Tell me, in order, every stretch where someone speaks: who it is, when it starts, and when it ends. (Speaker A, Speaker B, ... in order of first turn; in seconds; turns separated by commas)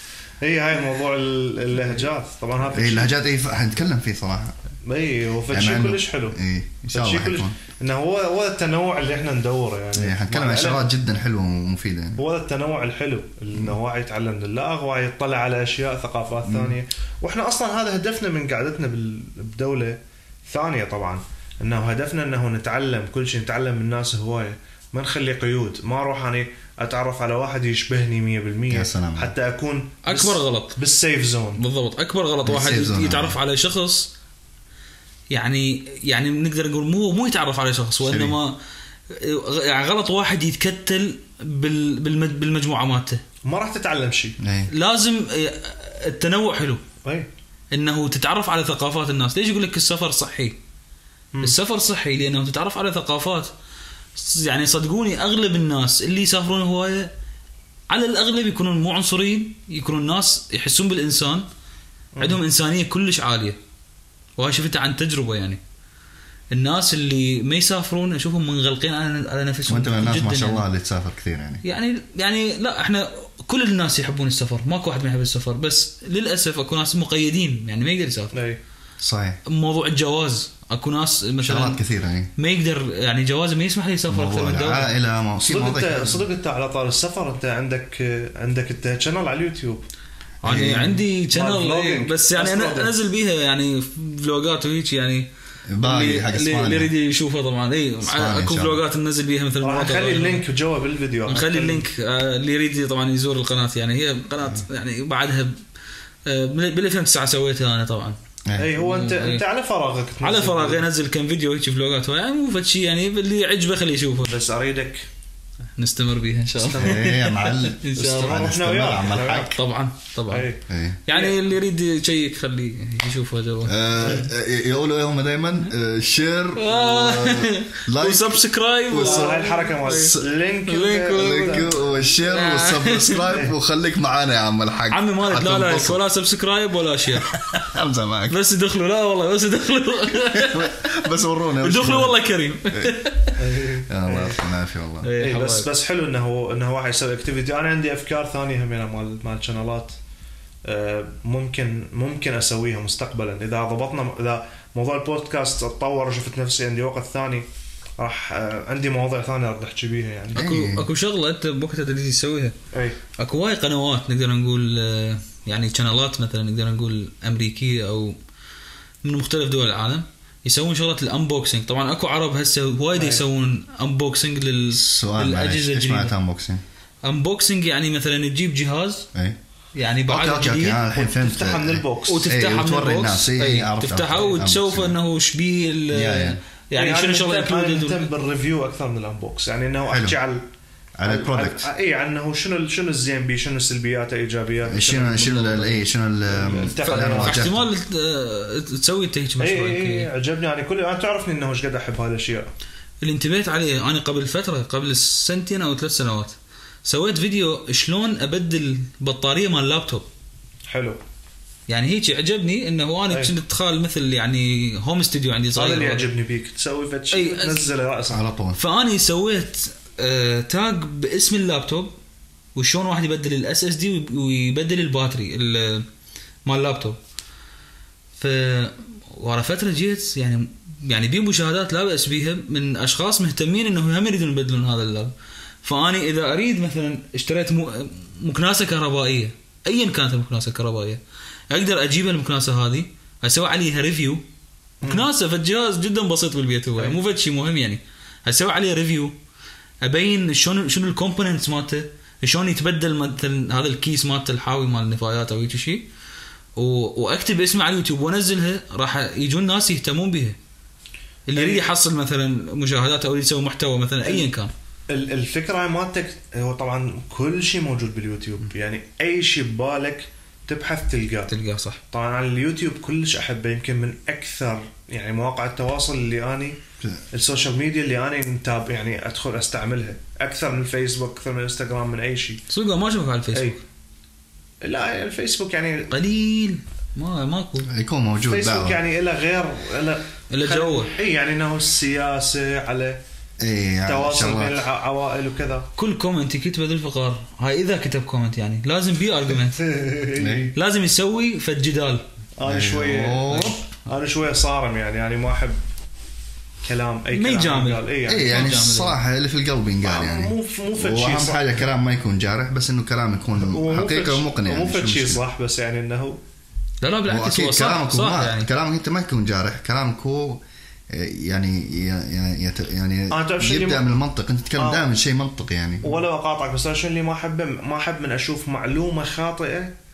Speaker A: 0.4-3.1, Speaker B: 2.7-4.6, Speaker A: 4.8-6.4, Speaker B: 5.5-7.6, Speaker A: 6.9-10.8, Speaker B: 9.9-12.2, Speaker A: 12.2-31.6, Speaker B: 16.5-16.8, Speaker B: 28.7-29.3, Speaker C: 30.1-30.8, Speaker C: 31.6-34.1, Speaker B: 32.5-33.4, Speaker C: 35.3-38.5, Speaker B: 38.0-38.4, Speaker C: 39.1-43.2, Speaker A: 43.5-44.4, Speaker B: 44.4-44.7, Speaker C: 44.7-46.8, Speaker C: 47.7-50.6, Speaker C: 51.4-53.5, Speaker C: 54.2-57.1, Speaker C: 57.9-61.5, Speaker A: 62.1-62.4, Speaker C: 62.2-63.6, Speaker C: 64.4-65.6, Speaker C: 66.5-70.6, Speaker B: 69.7-71.6, Speaker C: 71.6-78.3, Speaker A: 78.3-78.6, Speaker B: 79.0-79.4, Speaker C: 79.5-81.8, Speaker B: 81.4-82.3, Speaker C: 82.4-84.9, Speaker B: 84.1-86.2, Speaker A: 85.5-89.8, Speaker C: 90.4-95.3, Speaker B: 90.4-91.0, Speaker A: 91.3-92.9, Speaker B: 95.7-96.9, Speaker C: 95.8-100.4, Speaker B: 98.0-98.8, Speaker A: 99.6-101.8, Speaker C: 101.3-105.6, Speaker C: 106.2-108.2, Speaker B: 108.5-108.8, Speaker A: 108.6-110.8, Speaker C: 108.8-109.4, Speaker C: 110.2-114.3, Speaker A: 114.3-115.1, Speaker C: 115.8-118.4, Speaker A: 116.6-117.2, Speaker B: 116.8-119.5, Speaker A: 118.0-119.6, Speaker C: 119.5-120.5, Speaker A: 120.3-121.4, Speaker B: 120.7-121.0, Speaker C: 121.1-124.2, Speaker B: 123.7-130.2, Speaker C: 126.6-131.7, Speaker A: 129.0-131.8, Speaker B: 131.2-136.0, Speaker C: 132.2-133.3, Speaker C: 134.9-137.6, Speaker B: 137.2-138.4, Speaker C: 138.3-141.0, Speaker B: 140.2-142.2, Speaker C: 141.6-143.4, Speaker A: 143.4-144.4, Speaker B: 143.9-145.1, Speaker C: 145.0-145.7, Speaker A: 145.2-150.0, Speaker A: 150.6-157.4, Speaker A: 158.0-160.5, Speaker B: 160.3-160.9, Speaker C: 160.3-162.6, Speaker A: 162.7-163.0, Speaker C: 163.2-168.2, Speaker C: 169.0-176.1, Speaker A: 172.9-173.2, Speaker B: 174.8-176.6, Speaker C: 177.0-179.1, Speaker C: 179.8-180.8, Speaker B: 180.1-185.0, Speaker A: 180.9-182.2, Speaker C: 182.1-188.1, Speaker B: 185.9-186.4, Speaker A: 186.8-190.4, Speaker B: 189.9-190.2, Speaker B: 191.0-191.7, Speaker A: 191.1-195.7, Speaker B: 194.7-197.7, Speaker A: 196.3-197.4, Speaker C: 196.8-200.1, Speaker A: 199.4-202.5, Speaker C: 203.0-210.1, Speaker A: 210.7-211.0, Speaker C: 211.7-216.1, Speaker A: 215.6-218.3, Speaker C: 217.1-217.7, Speaker B: 218.1-218.6, Speaker C: 218.6-221.9, Speaker C: 222.6-225.9, Speaker C: 226.4-227.0, Speaker C: 228.2-235.1, Speaker C: 235.6-244.2, Speaker A: 244.8-245.1, Speaker C: 244.8-249.1, Speaker C: 249.8-255.9, Speaker C: 256.6-260.4, Speaker C: 261.3-264.5, Speaker A: 261.4-261.7, Speaker A: 264.9-271.3, Speaker C: 271.3-271.8, Speaker A: 271.9-276.6, Speaker A: 277.1-282.4, Speaker C: 282.5-283.6, Speaker A: 283.3-283.6, Speaker A: 284.6-285.9, Speaker C: 285.9-287.7, Speaker B: 287.7-288.8, Speaker A: 288.3-293.0, Speaker C: 290.3-290.9, Speaker B: 293.4-294.6, Speaker A: 293.9-295.7, Speaker C: 295.8-299.7, Speaker A: 299.6-300.5, Speaker B: 300.2-300.5, Speaker C: 300.5-302.0, Speaker A: 302.4-305.6, Speaker B: 302.4-303.6, Speaker A: 306.6-308.5, Speaker C: 307.1-309.0, Speaker B: 308.1-315.2, Speaker A: 309.8-311.6, Speaker A: 313.4-316.2, Speaker C: 316.8-318.5, Speaker B: 317.1-326.0, Speaker A: 323.1-323.9, Speaker A: 324.6-324.9, Speaker A: 325.8-329.7